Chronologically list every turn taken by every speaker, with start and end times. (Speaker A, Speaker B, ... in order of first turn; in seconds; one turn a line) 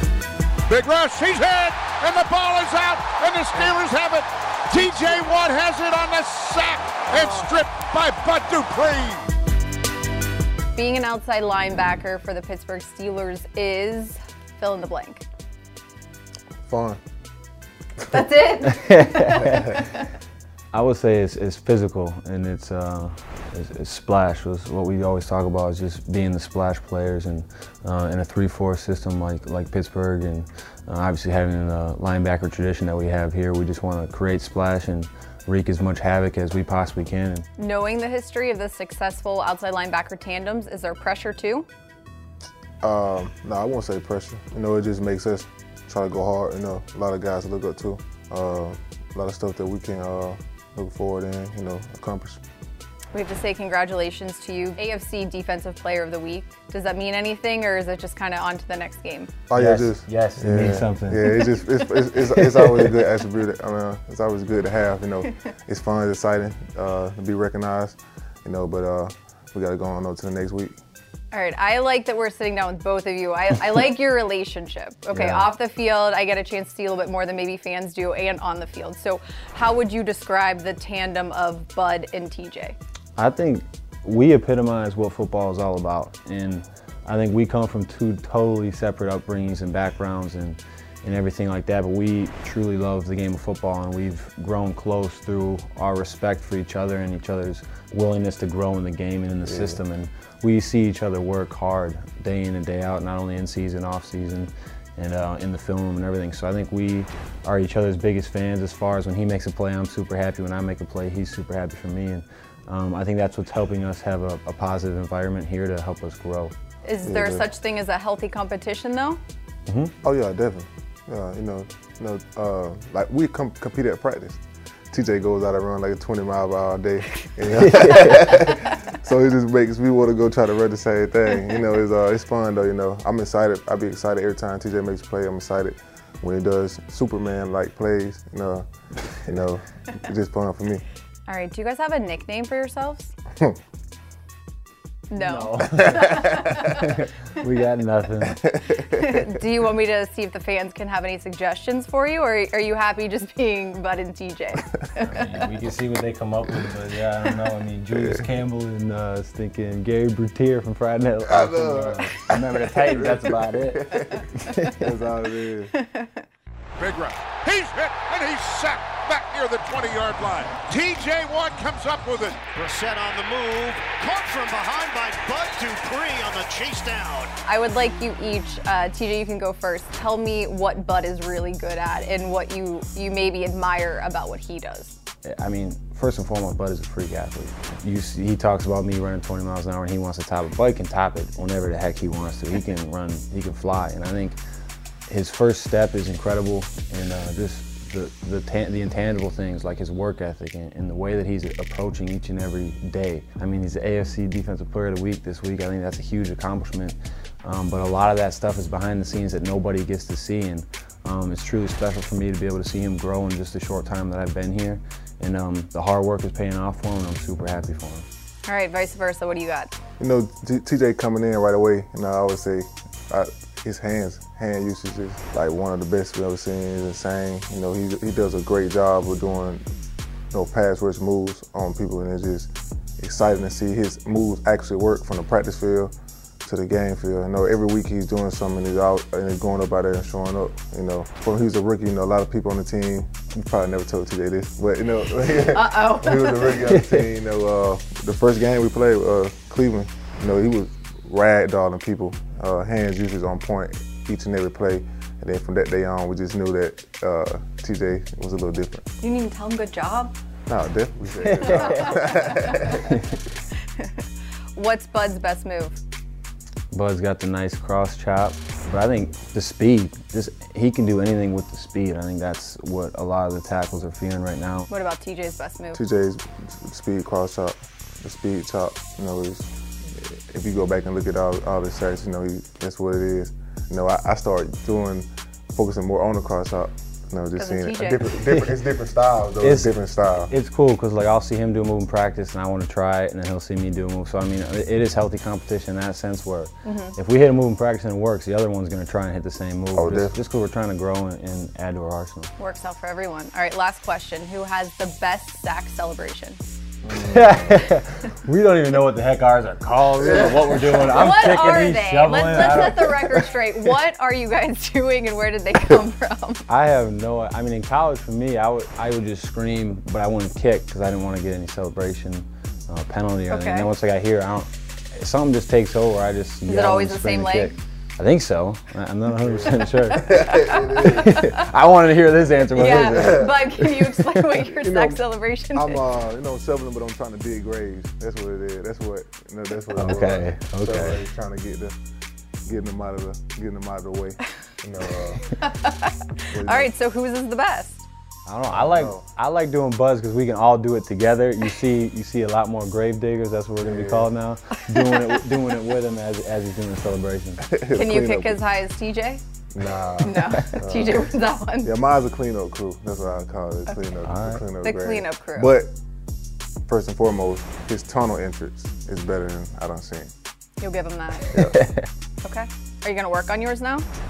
Speaker A: 0.7-9.2
Speaker B: 10.7-15.2
Speaker C: 16.7-17.0
Speaker B: 18.1-19.8
Speaker D: 18.6-19.8
Speaker D: 20.7-37.5
Speaker B: 37.6-41.7
Speaker C: 42.8-52.4
Speaker B: 53.1-59.3
Speaker C: 59.5-70.7
Speaker D: 59.5-63.0
Speaker B: 71.3-82.8
Speaker D: 75.1-75.5
Speaker D: 83.2-116.5
Speaker C: 99.4-99.8
Speaker B: 116.8-119.2
Speaker C: 117.0-117.5
Speaker D: 119.7-119.9
Speaker C: 120.0-138.7
Speaker D: 127.6-128.4
Speaker C: 139.2-140.8
Speaker B: 141.3-143.1
Speaker B: 145.1-146.8
Speaker D: 145.2-148.4
Speaker C: 145.8-146.2
Speaker B: 148.8-155.4
Speaker D: 155.0-164.9
Speaker C: 161.2-165.7
Speaker B: 165.7-166.2
Speaker A: 166.8-172.5
Speaker E: 172.5-177.3
Speaker B: 177.4-185.0
Speaker D: 185.2-194.4
Speaker D: 195.1-218.1
Speaker B: 218.4-219.7
Speaker C: 220.0-229.6
Speaker C: 230.3-235.9
Speaker C: 236.4-258.9
Speaker B: 245.1-246.7
Speaker D: 246.7-247.1
Speaker B: 259.0-260.1
Speaker C: 260.5-262.9
Speaker D: 261.2-262.1
Speaker B: 261.4-262.9
Speaker D: 262.6-263.0
Speaker B: 264.5-265.8
Speaker D: 266.7-274.7
Speaker B: 274.7-275.8
Speaker C: 275.7-290.3
Speaker B: 287.4-288.1
Speaker D: 289.4-302.3
Speaker B: 296.6-296.9
Speaker C: 299.7-300.1
Speaker B: 302.4-306.4
Speaker C: 306.8-307.4
Speaker D: 306.9-313.2
Speaker C: 310.1-310.9
Speaker B: 310.8-316.4
Speaker D: 316.5-334.4
Speaker B: 323.3-323.7
Speaker B: 326.5-327.6
Speaker C: 329.2-331.2
Speaker B: 329.9-331.3
Speaker B: 332.5-335.8
Speaker C: 332.7-333.4
Speaker C: 334.6-335.0
Speaker C: 335.5-341.8
Speaker D: 339.7-341.0
Speaker C: 342.4-345.2
Speaker B: 345.4-347.9
Speaker C: 346.3-346.7
Speaker D: 348.2-357.4
Speaker C: 348.5-349.1
Speaker C: 353.6-354.1
Speaker C: 357.4-358.4
Speaker B: 357.8-359.2
Speaker C: 359.5-361.1
Speaker B: 360.0-361.7
Speaker C: 361.6-365.7
Speaker B: 363.7-363.9
Speaker D: 364.0-364.4
Speaker B: 364.6-365.5
Speaker C: 366.7-370.1
Speaker B: 370.6-371.4
Speaker C: 371.3-371.6
Speaker D: 371.4-371.9
Speaker B: 372.2-373.9